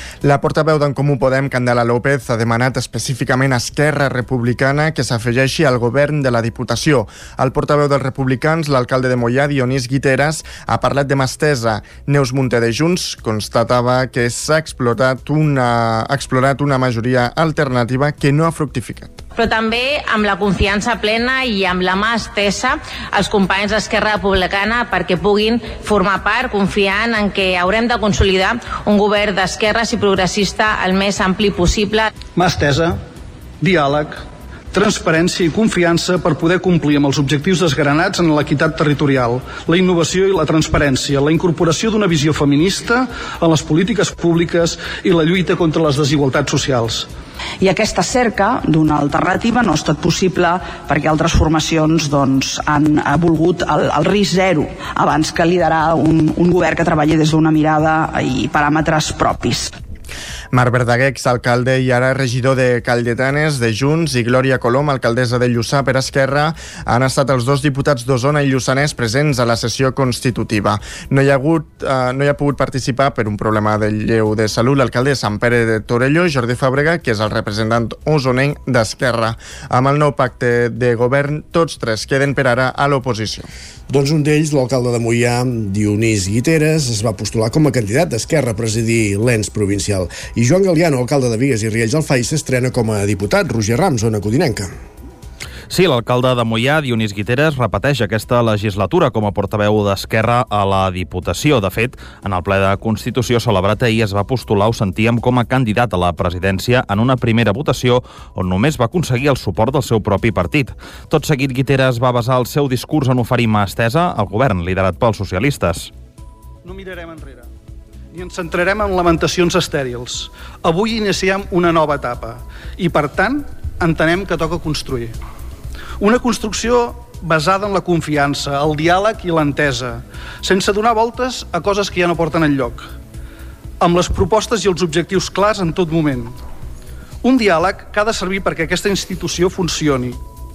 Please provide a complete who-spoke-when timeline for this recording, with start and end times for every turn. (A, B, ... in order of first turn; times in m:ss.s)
0:00.2-0:19.2 A
0:19.4-0:32.1 B
0:32.4-0:33.0 C
0:33.6-0:47.1 C
0:47.6-0:59.7 D
1:00.5-1:23.5 A
1:23.9-1:34.7 E
1:35.7-1:55.9 F
1:56.6-1:57.5 C
1:58.1-2:05.2 C
2:06.0-2:12.9 C
2:13.8-2:16.4 C
2:17.2-2:20.2 C